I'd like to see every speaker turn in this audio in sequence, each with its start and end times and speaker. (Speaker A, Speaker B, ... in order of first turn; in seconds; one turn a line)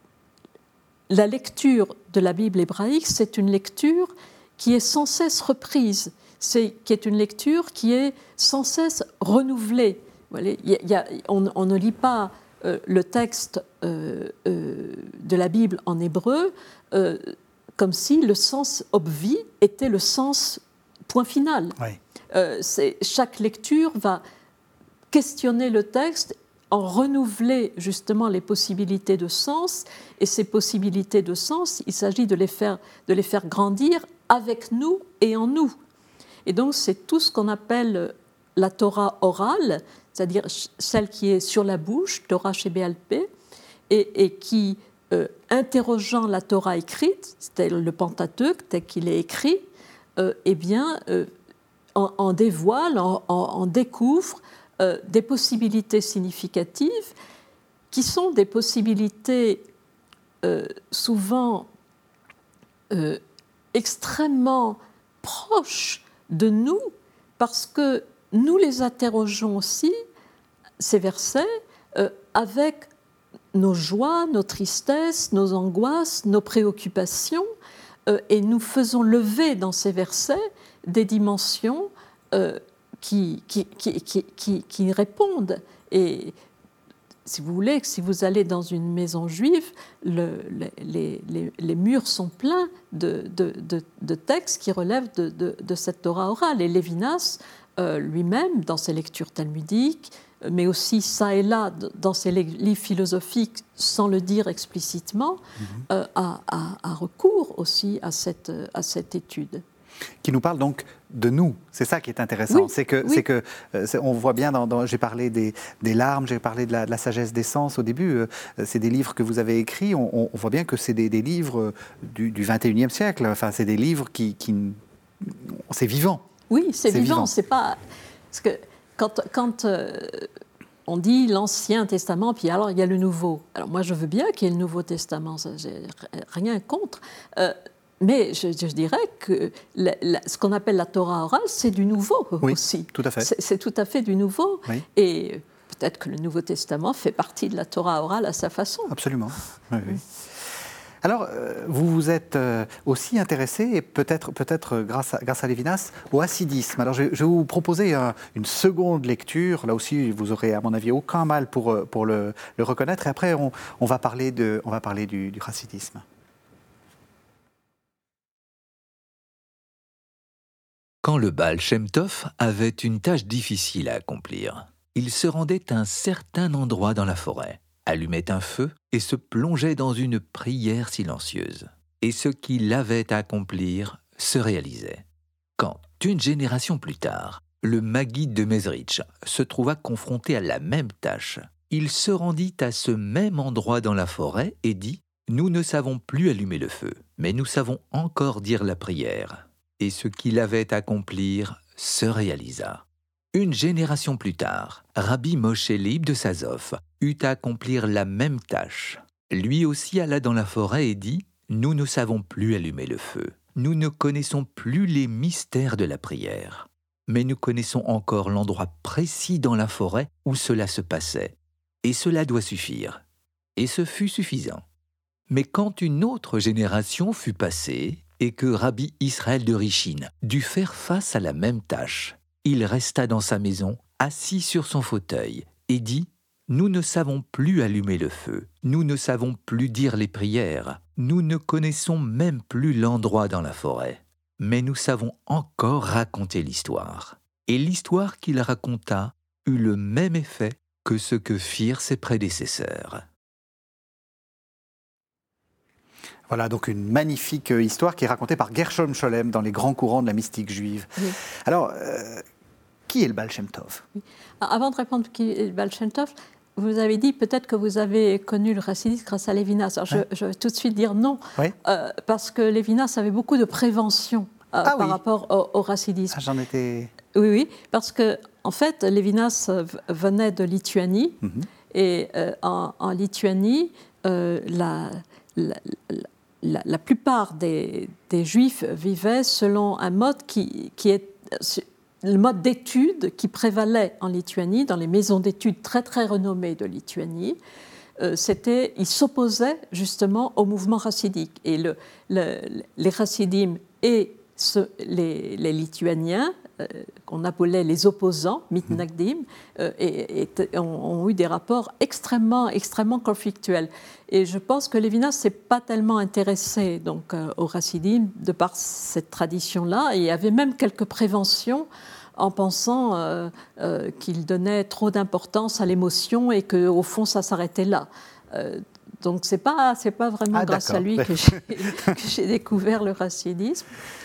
Speaker A: 1.1-21.8
Speaker A: 22.3-24.2
Speaker A: 25.1-35.8
Speaker A: 36.4-43.3
Speaker A: 43.9-51.3
Speaker A: 51.9-57.1
Speaker A: 57.9-59.7
Speaker A: 60.4-61.7
Speaker A: 62.9-63.2
Speaker A: 63.7-69.9
Speaker A: 70.8-72.9
Speaker A: 73.5-77.4
Speaker A: 78.1-86.3
Speaker A: 87.2-109.6
Speaker B: 110.2-126.2
Speaker A: 112.5-113.2
Speaker A: 126.5-127.8
Speaker B: 126.9-127.3
Speaker A: 128.3-130.3
Speaker A: 130.8-148.9
Speaker B: 142.4-143.3
Speaker B: 148.9-150.0
Speaker B: 151.0-166.0
Speaker C: 171.0-185.0
Speaker C: 185.6-223.0
Speaker C: 223.6-224.6
Speaker C: 225.3-253.0
Speaker B: 256.3-262.2
Speaker B: 262.9-263.8
Speaker A: 264.4-276.2
Speaker B: 274.6-275.0
Speaker B: 276.1-276.9
Speaker A: 277.1-281.2
Speaker B: 281.2-281.5
Speaker A: 281.7-297.4
Speaker A: 298.0-333.7
Speaker B: 330.3-331.9